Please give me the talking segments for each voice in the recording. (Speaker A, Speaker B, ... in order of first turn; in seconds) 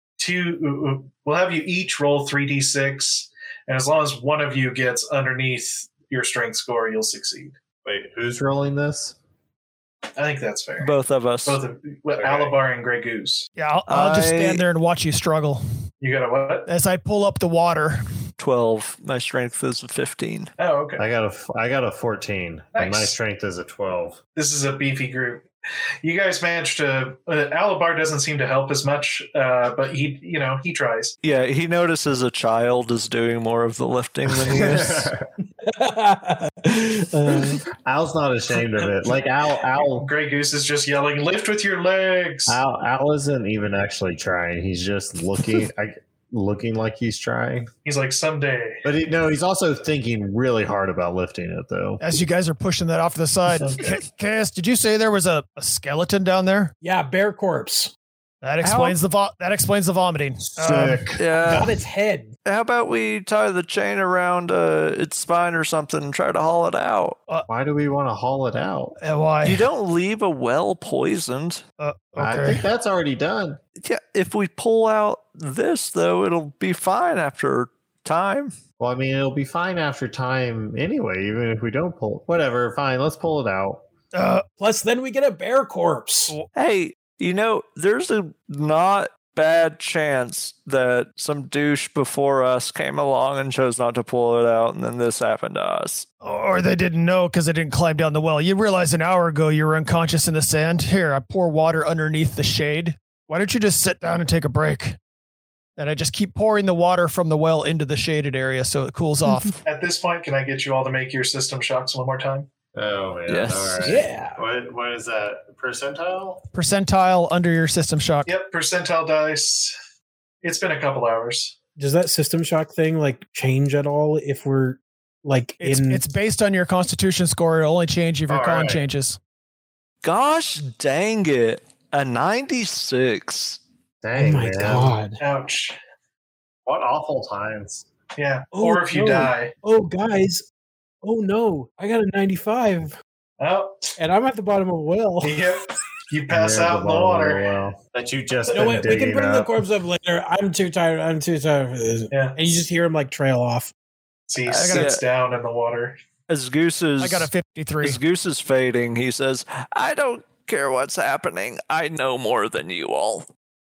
Speaker A: 0.2-7.6, 10.2-10.9, 11.4-13.5, 16.0-16.7, 20.6-21.0, 22.7-23.1, 24.3-25.4, 26.0-31.1, 39.7-42.6, 47.8-48.8, 109.6-112.5, 118.2-119.7, 120.4-121.5, 135.2-135.8, 138.2-139.5, 143.4-143.9, 145.2-147.4, 152.1-152.4, 154.3-156.0
Speaker B: 7.8-9.2, 12.2-12.5, 21.0-24.2, 34.4-35.2, 37.7-40.1, 42.5-47.7, 48.8-52.0, 60.4-61.2, 67.5-69.0, 72.2-73.6, 78.8-83.8, 112.7-116.4, 128.3-128.8, 134.0-134.9, 136.7-137.8, 146.3-149.5
Speaker C: 10.8-11.6, 13.9-14.6, 18.4-20.5, 31.2-35.0, 58.6-59.0, 61.2-61.7, 62.5-67.2, 69.4-71.6, 73.8-78.5, 86.5-96.1, 113.3-114.0, 130.0-133.6, 154.4-155.0, 156.3-157.3, 157.8-163.2
Speaker D: 13.5-15.6, 16.7-18.1, 52.0-56.7, 58.4-61.1, 69.0-69.6, 71.8-72.6, 84.1-84.4, 96.2-105.0, 105.8-109.6, 116.5-118.3, 125.6-129.2, 154.6-154.9, 157.0-158.0
Speaker E: 35.6-37.6, 56.8-57.9, 61.5-62.3, 84.6-86.3, 113.8-114.4, 121.8-126.0, 134.1-135.2, 138.5-140.5, 141.0-143.0, 144.0-145.4, 148.5-153.7